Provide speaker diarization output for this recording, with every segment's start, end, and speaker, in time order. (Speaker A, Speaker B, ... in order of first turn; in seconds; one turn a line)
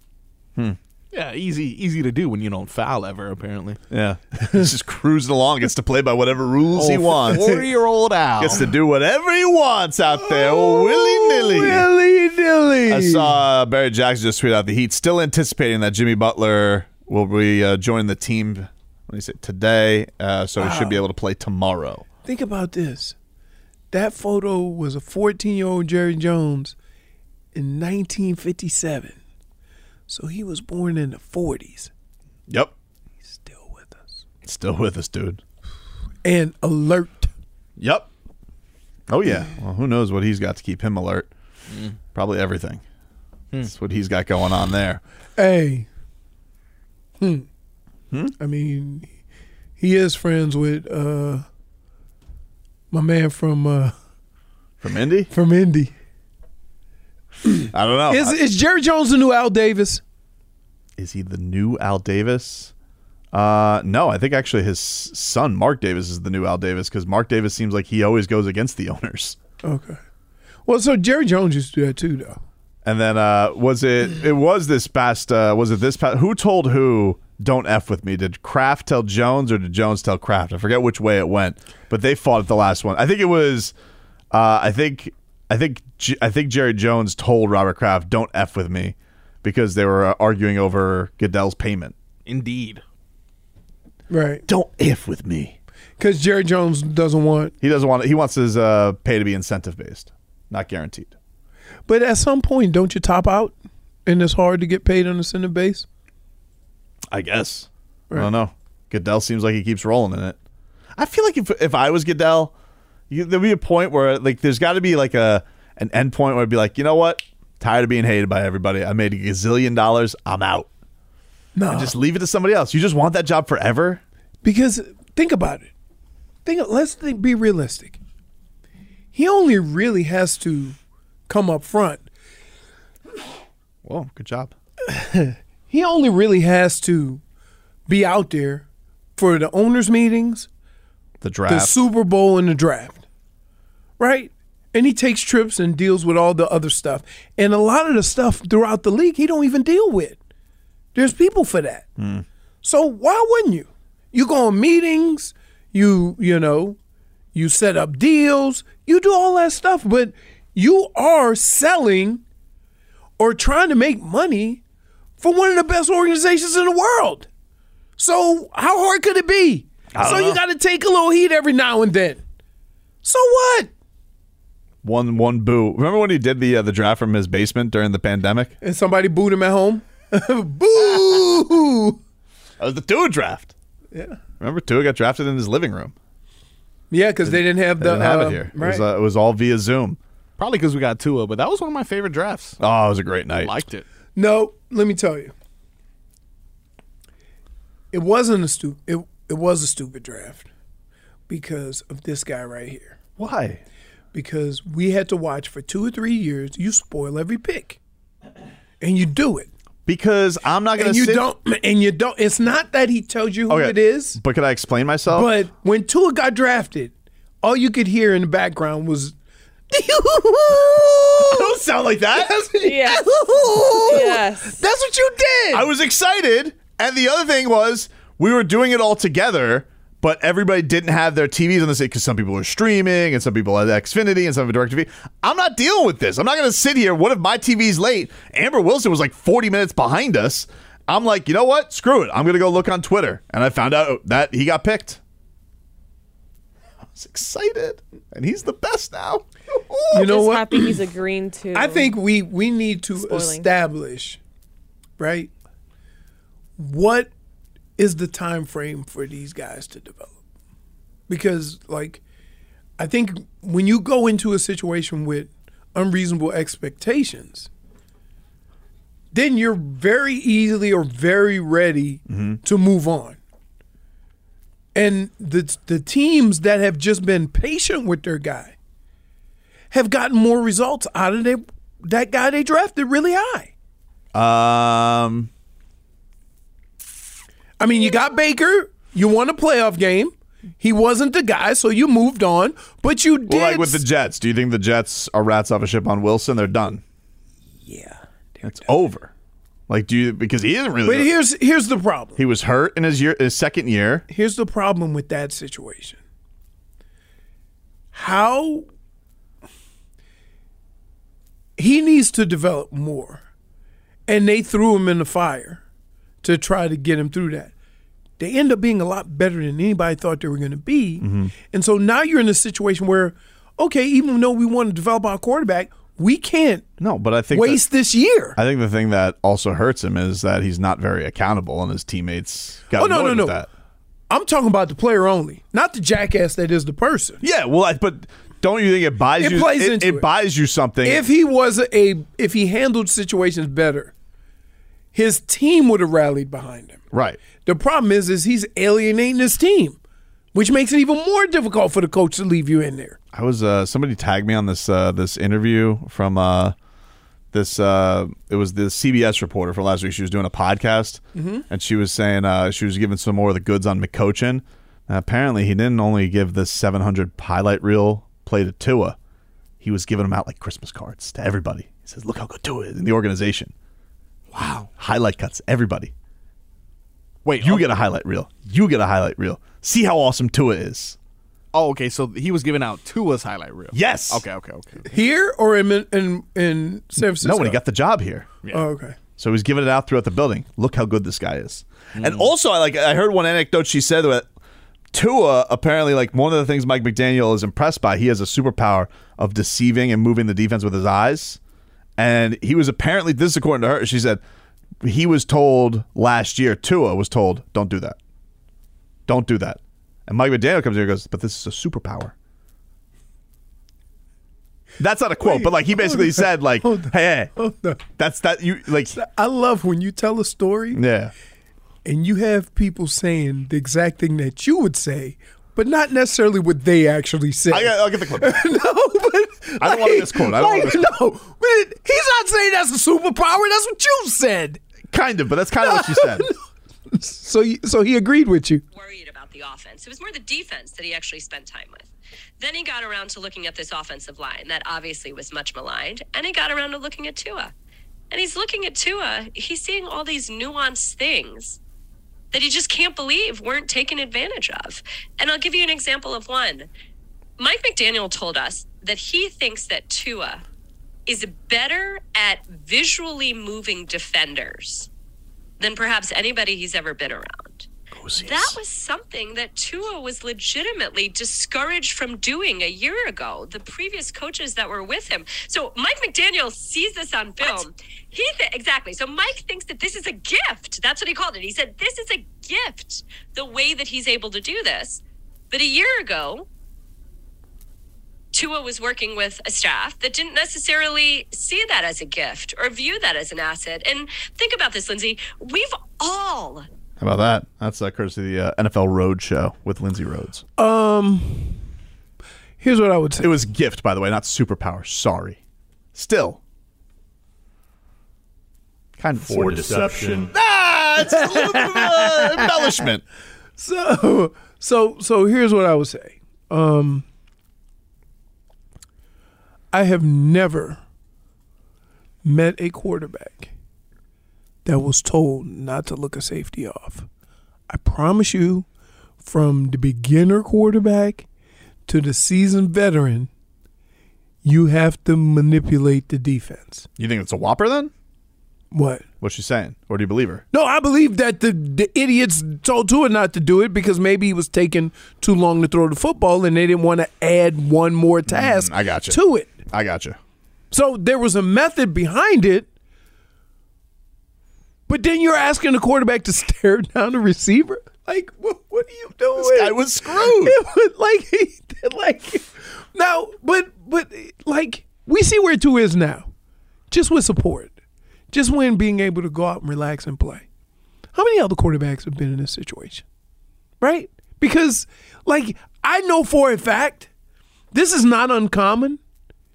Speaker A: 1.1-3.8
Speaker B: 3.9-7.5
Speaker A: 6.8-8.7
Speaker C: 7.3-7.6
Speaker B: 8.4-11.9
Speaker C: 10.2-13.3
Speaker B: 12.9-22.0
Speaker C: 20.6-21.0
Speaker C: 22.2-23.1
Speaker C: 23.9-26.8
Speaker C: 27.5-29.2
Speaker C: 30.1-31.9
Speaker C: 33.2-34.2
Speaker B: 34.4-35.4
Speaker C: 36.2-37.3
Speaker B: 37.8-38.1
Speaker B: 39.1-41.3
Speaker A: 41.7-42.0
Speaker B: 42.1-42.8
Speaker B: 43.6-45.0
Speaker C: 45.4-45.9
Speaker C: 47.2-47.5
Speaker C: 48.4-49.1
Speaker C: 49.8-51.4
Speaker C: 52.9-53.9
Speaker B: 54.8-55.3
Speaker C: 55.3-55.9
Speaker C: 57.4-60.0
Speaker B: 57.7-58.4
Speaker B: 61.0-62.7
Speaker B: 63.3-69.4
Speaker C: 69.6-70.0
Speaker C: 70.7-72.4
Speaker B: 72.8-83.7
Speaker B: 84.3-91.9
Speaker A: 92.2-92.8
Speaker C: 94.1-94.4
Speaker B: 94.5-95.6
Speaker C: 96.0-97.5
Speaker B: 97.6-101.1
Speaker C: 101.9-105.8
Speaker B: 107.1-110.4
Speaker B: 111.0-112.5
Speaker B: 113.1-120.7
Speaker C: 121.5-121.9
Speaker B: 121.7-124.0
Speaker C: 124.4-125.7
Speaker C: 126.4-128.0
Speaker C: 129.1-130.8
Speaker C: 131.3-132.1
Speaker B: 133.8-134.5
Speaker C: 134.9-137.2
Speaker C: 137.9-138.7
Speaker C: 139.2-140.5
Speaker B: 141.2-141.8
Speaker C: 141.5-143.0
Speaker C: 144.0-150.2
Speaker C: 150.9-151.9
Speaker B: 152.0-152.2
Speaker C: 152.6-156.8
Speaker C: 157.3-162.2
Speaker C: 163.2-164.6
Speaker C: 165.2-167.3
Speaker C: 168.0-172.2
Speaker B: 169.9-170.4
Speaker C: 173.0-173.7
Speaker B: 174.8-178.5
Speaker C: 178.6-182.0
Speaker B: 182.6-183.5
Speaker C: 183.9-184.2
Speaker B: 184.4-185.9
Speaker C: 186.9-188.9
Speaker B: 187.2-190.0
Speaker A: 190.4-192.6
Speaker B: 192.6-193.6
Speaker A: 193.4-193.8
Speaker C: 194.2-195.3
Speaker C: 197.9-200.5
Speaker C: 201.3-203.0
Speaker B: 203.2-203.6
Speaker C: 204.1-207.8
Speaker C: 208.8-209.5
Speaker B: 209.8-211.3
Speaker C: 210.8-214.2
Speaker B: 213.5-215.3
Speaker C: 215.1-219.1
Speaker C: 219.7-221.6
Speaker B: 221.2-224.1
Speaker C: 222.1-225.7
Speaker D: 222.6-223.1
Speaker D: 223.8-224.6
Speaker B: 225.5-245.0
Speaker B: 246.9-250.2
Speaker C: 249.9-250.8
Speaker D: 250.0-252.0
Speaker C: 251.5-254.2
Speaker D: 252.9-253.5
Speaker C: 255.0-255.3
Speaker C: 256.6-257.1
Speaker C: 257.8-260.1
Speaker C: 261.1-262.0
Speaker C: 262.8-267.5
Speaker C: 269.1-273.2
Speaker B: 272.1-272.4
Speaker C: 274.7-278.5
Speaker C: 279.7-283.5
Speaker B: 284.1-285.3
Speaker C: 287.6-293.8
Speaker B: 293.3-296.8
Speaker C: 297.6-298.7
Speaker B: 298.4-299.1
Speaker B: 299.7-301.1
Speaker C: 300.8-302.2
Speaker B: 302.2-304.1
Speaker C: 304.1-306.0
Speaker C: 307.9-308.6
Speaker C: 311.6-313.2
Speaker C: 314.1-315.6
Speaker C: 316.2-317.5
Speaker C: 318.2-326.7
Speaker B: 321.0-321.3
Speaker B: 326.8-327.6
Speaker C: 327.3-328.4
Speaker B: 328.4-333.5
Speaker C: 332.8-333.4
Speaker C: 334.1-337.2
Speaker B: 337.2-341.1
Speaker C: 339.2-340.1
Speaker C: 340.8-343.9
Speaker C: 344.9-346.8
Speaker B: 346.9-347.2
Speaker C: 347.4-349.8
Speaker C: 350.3-353.0
Speaker B: 353.1-356.5
Speaker B: 357.3-369.0
Speaker C: 361.1-361.4
Speaker B: 369.6-373.5
Speaker A: 374.3-374.7
Speaker B: 374.8-375.9
Speaker A: 377.2-377.7
Speaker B: 377.4-381.0
Speaker A: 381.5-384.9
Speaker B: 383.7-384.2
Speaker C: 384.9-387.6
Speaker B: 387.2-388.3
Speaker C: 388.5-388.9
Speaker B: 389.2-394.3
Speaker A: 391.9-392.3
Speaker B: 394.9-401.4
Speaker B: 402.0-404.2
Speaker B: 404.8-408.0
Speaker B: 409.1-412.1
Speaker B: 414.8-417.3
Speaker C: 415.2-417.8
Speaker B: 417.9-418.9
Speaker C: 418.9-420.8
Speaker B: 420.7-421.1
Speaker C: 421.8-434.6
Speaker B: 427.5-428.5
Speaker B: 429.6-430.9
Speaker B: 434.9-436.3
Speaker C: 435.6-436.4
Speaker C: 436.9-438.6
Speaker E: 438.7-447.5
Speaker E: 448.1-451.6
Speaker E: 452.3-456.7
Speaker E: 457.4-460.4
Speaker E: 461.1-464.9
Speaker E: 465.6-467.7
Speaker B: 467.9-468.6
Speaker E: 468.2-486.5
Speaker E: 488.3-496.7
Speaker B: 497.0-500.4
Speaker C: 500.6-501.6
Speaker C: 502.6-503.3
Speaker B: 503.2-505.4
Speaker B: 505.9-506.4
Speaker B: 509.0-513.0
Speaker C: 511.4-512.2
Speaker C: 513.6-517.0
Speaker C: 519.7-520.8
Speaker C: 522.2-523.5
Speaker C: 524.6-527.1
Speaker C: 527.7-528.6
Speaker C: 529.2-531.2
Speaker C: 531.9-533.3
Speaker C: 534.4-536.9
Speaker B: 537.0-537.9
Speaker C: 538.7-539.0
Speaker B: 539.2-540.4
Speaker C: 540.5-549.5
Speaker B: 548.3-550.2
Speaker C: 550.7-552.7
Speaker C: 554.9-566.3
Speaker B: 559.4-560.6
Speaker C: 566.9-567.7
Speaker C: 568.3-570.4
Speaker C: 571.1-573.0
Speaker C: 573.8-577.1
Speaker C: 577.7-579.0